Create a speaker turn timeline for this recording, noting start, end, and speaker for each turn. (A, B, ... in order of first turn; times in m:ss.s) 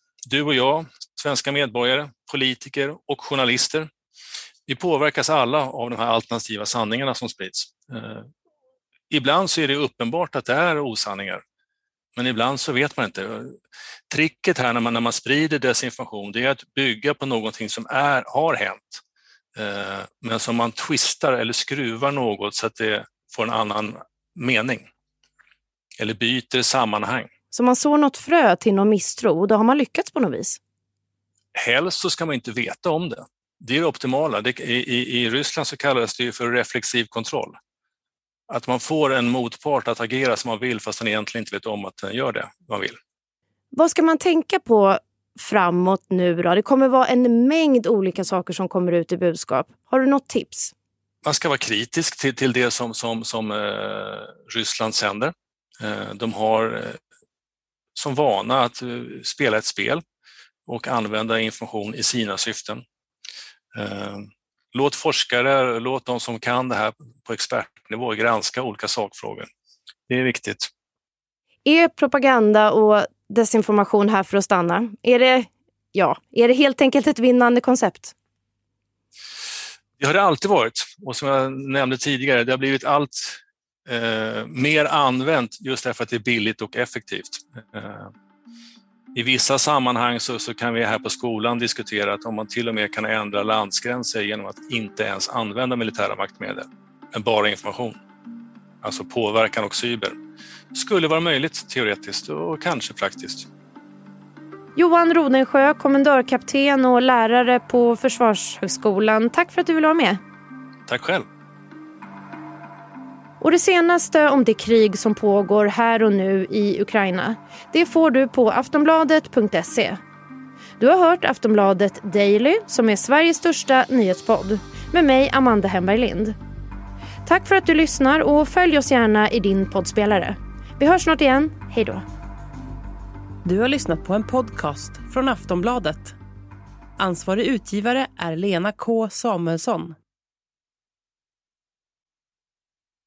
0:00.3-0:03.9 A
0:04.7-0:08.3 A
0:09.1-0:11.4 A
0:12.2-0:13.6 A
0:14.1-0:19.0 A
0:19.6-0:24.9 A
0:26.0-0:27.3 A
0:27.5-0:30.6 B
0:31.6-0:37.6 A
0:38.5-0:43.0 A
0:43.7-0:50.7 B
0:51.2-0:57.0 A
0:58.0-1:00.0 A
1:00.7-1:02.8 A
1:03.8-1:09.5 A
1:10.1-1:10.7 A
1:11.6-1:18.2 B
1:20.0-1:28.1 A
1:29.1-1:38.0 A
1:38.8-1:40.2 A
1:40.7-1:43.5 A
1:44.8-1:50.2 B
1:50.9-1:51.3 A
1:53.4-2:00.0 B
2:00.8-2:06.4 B
2:07.2-2:12.0 B
2:13.4-2:16.2 C
2:17.0-2:20.0 C